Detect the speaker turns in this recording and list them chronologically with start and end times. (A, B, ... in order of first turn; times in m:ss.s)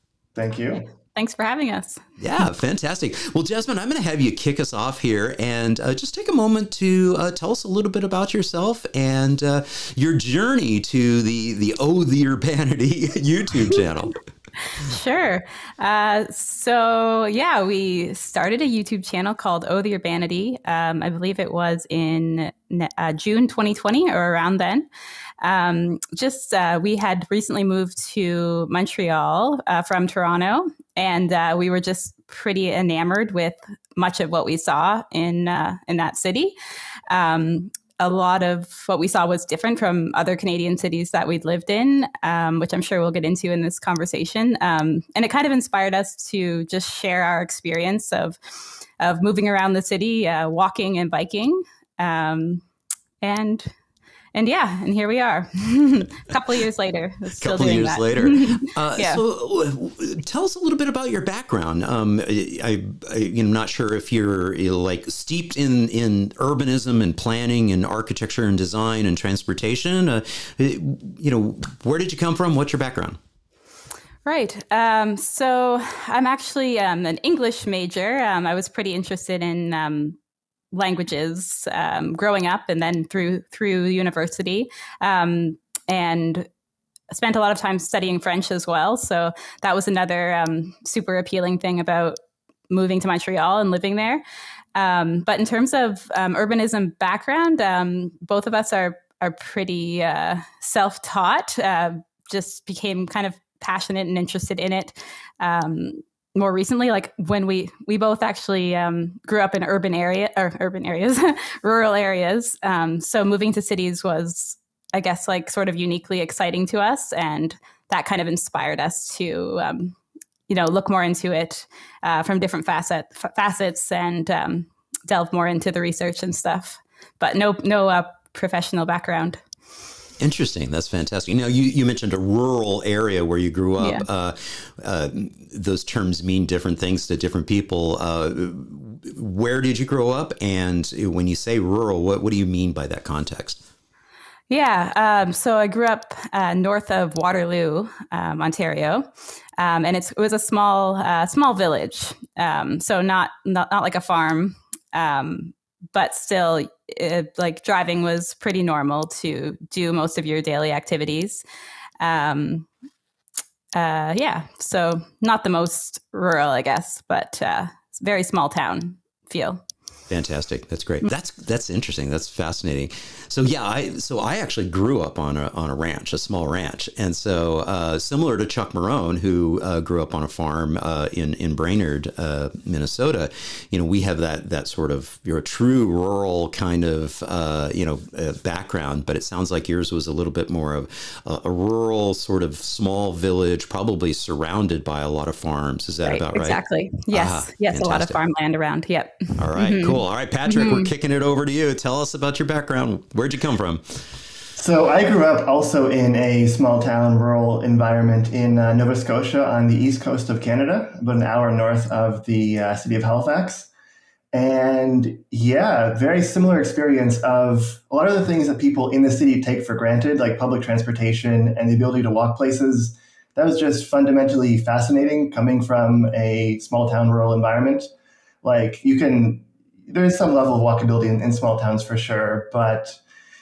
0:00.4-0:00.9 A
0:01.1-0:02.0 B
0:02.2-0:14.2 C
0:14.8-0:24.9 B
0:25.4-0:36.6 B
0:37.1-0:48.4 B
0:49.0-0:52.6 B
0:53.2-0:53.7 B
0:54.3-0:59.2 B
0:57.4-1:13.2 C
1:14.3-1:20.2 B
1:20.7-1:26.5 B
1:27.1-1:32.2 B
1:32.7-1:34.2 B
1:34.8-2:00.0 B
2:00.5-2:09.4 B
2:10.2-2:23.6 C
2:13.8-2:14.0 B
2:24.5-2:41.4 B
2:42.0-2:42.7 B
2:43.7-2:49.6 B
2:50.1-3:18.2 C
3:16.0-3:20.9 B
3:19.4-3:24.2 C
3:24.6-3:33.7 A
3:34.3-3:47.9 A
3:48.4-3:53.0 A